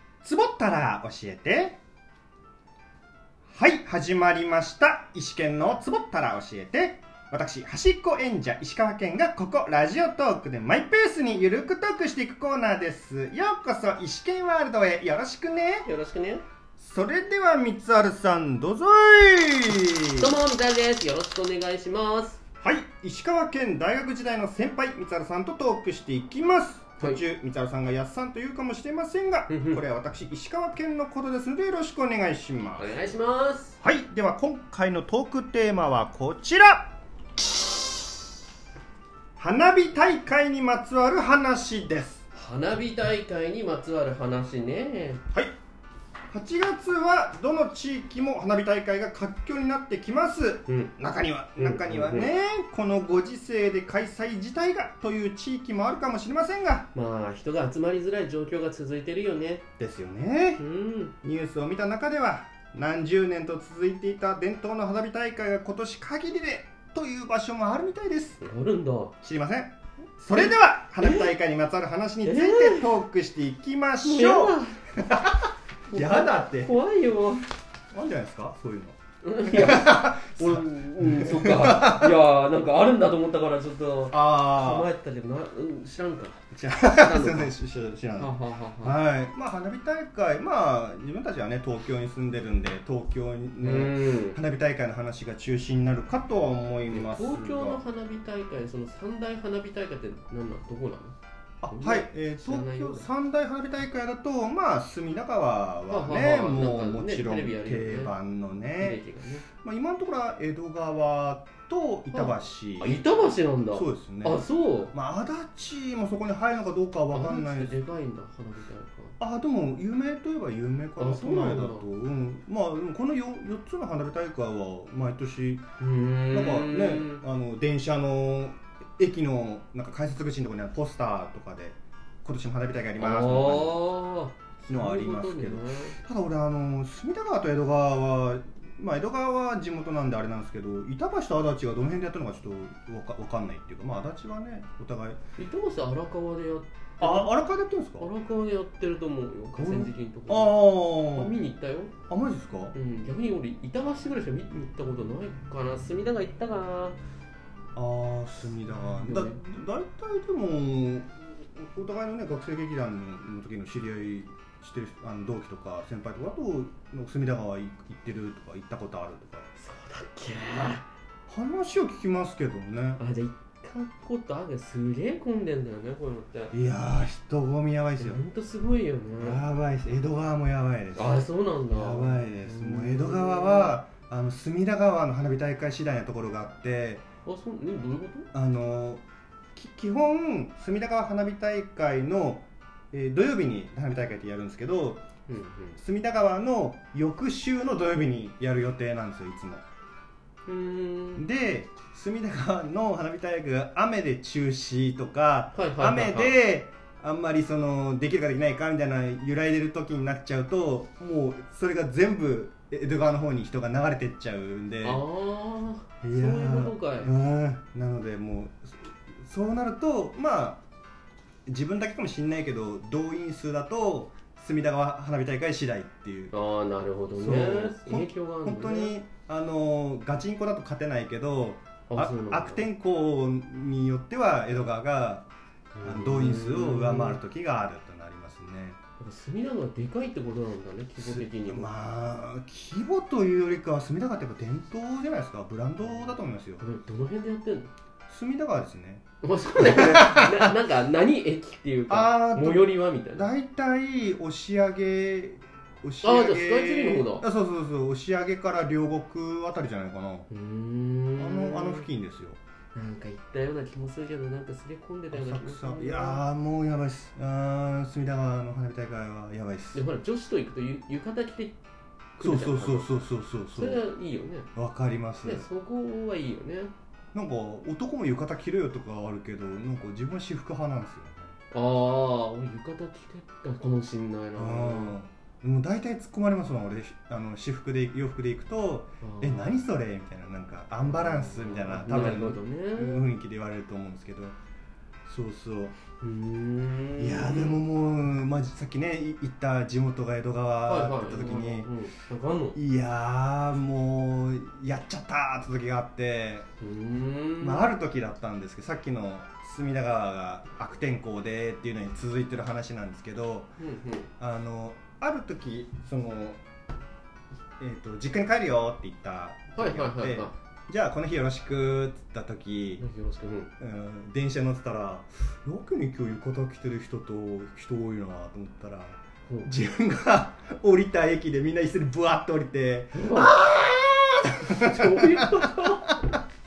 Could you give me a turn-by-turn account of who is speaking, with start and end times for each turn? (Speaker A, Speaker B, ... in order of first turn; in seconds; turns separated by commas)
Speaker A: 0.2-1.8, Speaker A: 3.5-15.9, Speaker B: 15.8-16.5, Speaker A: 16.8-20.3, Speaker B: 20.1-22.4, Speaker A: 22.6-33.0, Speaker B: 29.5-29.8, Speaker B: 32.8-33.8, Speaker A: 33.8-36.9, Speaker A: 39.4-42.2, Speaker B: 42.3-45.2, Speaker A: 46.3-56.9, Speaker B: 50.7-50.9, Speaker B: 51.6-52.3, Speaker B: 56.9-59.6, Speaker A: 59.8-60.6, Speaker B: 60.6-61.1, Speaker A: 61.2-68.4, Speaker B: 68.4-69.1, Speaker A: 69.2-76.8, Speaker B: 71.0-71.3, Speaker B: 72.2-72.9, Speaker B: 74.0-74.8, Speaker B: 75.9-77.5, Speaker A: 77.9-82.2, Speaker B: 79.2-87.5, Speaker A: 84.1-84.9, Speaker A: 86.5-97.8, Speaker B: 88.2-89.0, Speaker B: 93.6-94.4, Speaker B: 96.9-103.1, Speaker A: 101.6-109.0, Speaker B: 105.9-108.1, Speaker B: 108.8-109.5, Speaker A: 109.5-113.1, Speaker B: 112.1-115.0, Speaker A: 113.7-117.8, Speaker B: 117.1-119.2, Speaker A: 119.2-125.6, Speaker B: 121.0-121.9, Speaker B: 125.8-127.2, Speaker A: 126.3-133.8, Speaker B: 133.0-136.0, Speaker A: 134.6-145.2, Speaker B: 145.4-147.3, Speaker A: 147.0-148.1, Speaker B: 148.0-151.9, Speaker A: 149.6-151.3, Speaker A: 152.1-152.8, Speaker B: 152.7-157.0, Speaker A: 157.8-169.5, Speaker B: 158.7-159.4, Speaker B: 169.6-170.8, Speaker A: 171.3-173.0, Speaker B: 173.0-176.6, Speaker A: 176.5-178.2, Speaker B: 178.0-179.4, Speaker A: 179.2-187.1, Speaker B: 180.9-183.8, Speaker B: 187.3-188.3, Speaker A: 188.3-189.0, Speaker A: 189.6-195.1, Speaker B: 195.3-195.8, Speaker A: 195.8-199.6, Speaker B: 200.5-201.3, Speaker A: 201.2-215.0, Speaker B: 205.6-206.3, Speaker B: 214.8-217.1, Speaker A: 216.0-220.6, Speaker A: 221.5-226.3, Speaker B: 226.3-228.9, Speaker A: 227.2-235.3, Speaker B: 231.9-232.7, Speaker B: 235.8-237.2, Speaker A: 235.8-238.8, Speaker B: 239.0-241.7, Speaker A: 241.0-246.7, Speaker B: 245.9-247.7, Speaker A: 248.1-249.0, Speaker B: 249.2-253.3, Speaker A: 249.6-250.5, Speaker A: 251.9-260.3, Speaker B: 256.0-257.3, Speaker B: 260.3-261.9, Speaker A: 261.2-262.4, Speaker B: 262.7-266.2, Speaker A: 265.1-269.9, Speaker B: 269.7-271.6, Speaker A: 272.2-273.9, Speaker B: 272.2-272.9, Speaker B: 273.5-274.5, Speaker A: 274.6-275.5, Speaker B: 275.2-276.7, Speaker A: 277.1-281.4, Speaker B: 281.5-285.0, Speaker A: 284.4-294.4, Speaker B: 289.0-289.6, Speaker B: 290.9-293.0, Speaker A: 295.1-295.8, Speaker B: 296.0-297.6, Speaker A: 297.0-301.7, Speaker B: 300.7-302.6, Speaker A: 302.5-306.5, Speaker B: 306.6-307.7, Speaker A: 307.4-313.5, Speaker B: 313.6-314.1, Speaker A: 314.2-316.4, Speaker A: 317.6-322.9, Speaker B: 319.6-320.3, Speaker B: 322.8-323.5, Speaker A: 323.6-335.8, Speaker B: 332.9-333.5, Speaker B: 334.4-336.0